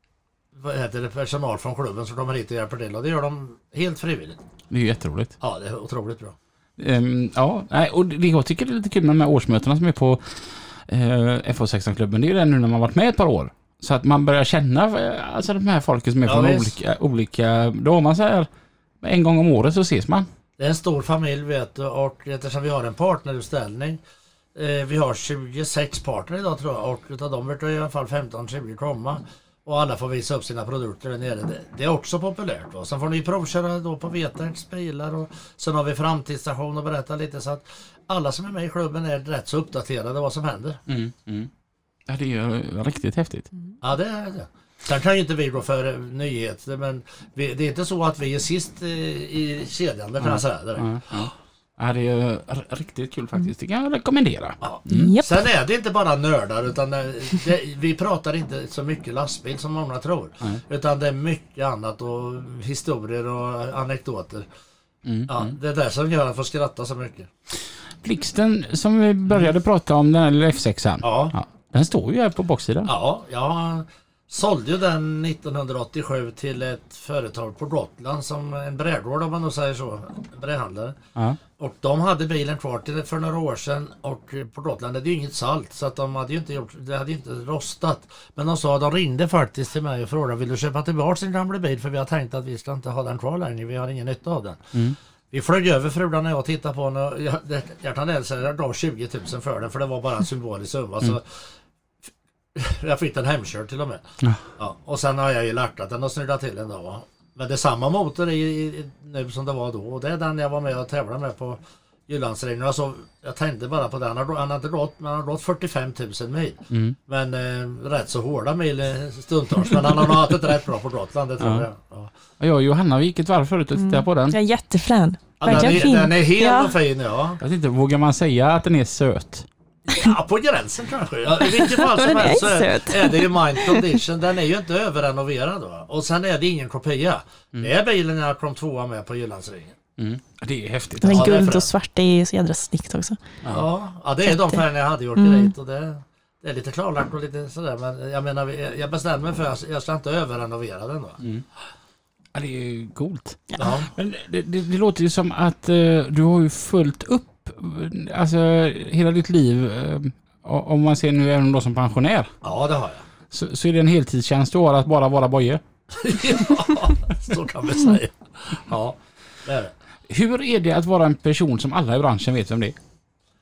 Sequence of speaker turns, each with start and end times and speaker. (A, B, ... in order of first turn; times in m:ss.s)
0:00.5-0:04.4 A
0:04.7-0:05.4 B
0:05.4-0:06.4 A
0:06.8-0:18.5 B
0:16.2-0:16.8 A
0:19.0-0:20.3 B
0:20.6-0:24.0 A
0:24.5-0:40.8 A
0:40.9-0:41.5 B
0:42.1-0:43.5 B
0:43.8-0:51.3 A
0:50.2-0:55.1 B
0:54.6-1:04.5 A
0:54.9-0:55.4 C
1:05.0-1:05.5 B
1:05.3-1:07.3 A
1:08.0-1:12.9 B
1:11.0-1:11.3 A
1:12.8-1:21.0 A
1:21.6-1:34.7 A
1:35.3-1:41.5 A
1:42.5-2:02.1 A
1:56.7-1:57.0 B
2:01.4-2:01.7 B
2:02.4-2:04.4 B
2:03.8-2:06.7 C
2:05.4-2:07.4 A
2:05.5-2:05.9 B
2:07.4-2:09.5 B
2:09.9-2:19.8 A
2:11.6-2:13.8 C
2:20.0-2:21.4 B
2:21.0-2:23.2 C
2:21.1-2:21.7 A
2:23.5-2:31.2 A
2:24.3-2:24.6 C
2:25.2-2:25.5 C
2:31.2-2:31.4 B
2:32.3-2:42.3 B
2:33.6-2:33.9 A
2:42.4-2:43.0 A
2:43.3-2:45.6 B
2:46.0-2:49.7 A
2:50.1-2:52.8 B